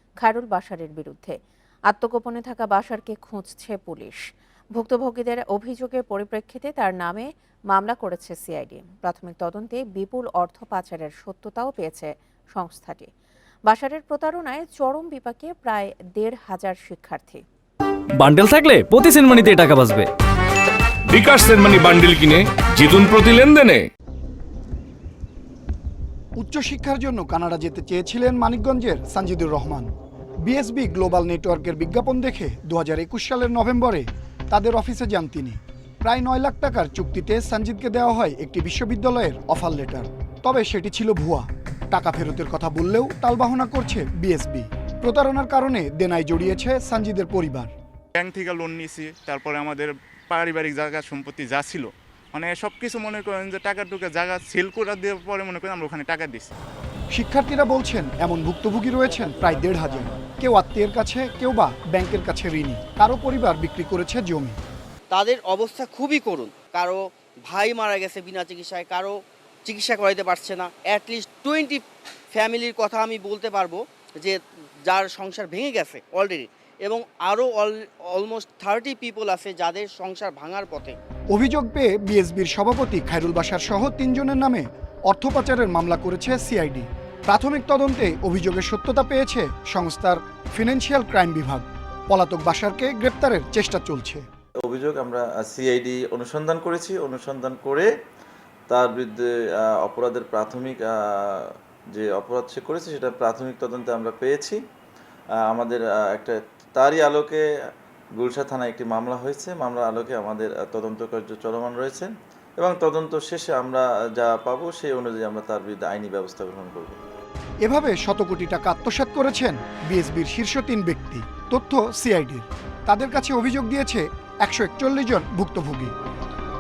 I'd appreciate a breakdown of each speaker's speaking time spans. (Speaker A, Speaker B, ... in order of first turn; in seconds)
Speaker A: 0.2-1.4, 1.9-4.2, 4.7-13.1, 13.7-17.4
Speaker B: 18.2-20.1
Speaker C: 21.1-23.9
Speaker D: 26.4-29.9, 30.4-47.7, 57.1-64.6, 81.3-94.2, 117.6-125.9
Speaker E: 48.2-56.5
Speaker F: 65.1-81.0
Speaker G: 94.6-97.9, 98.7-104.6, 105.5-107.4, 108.2-117.0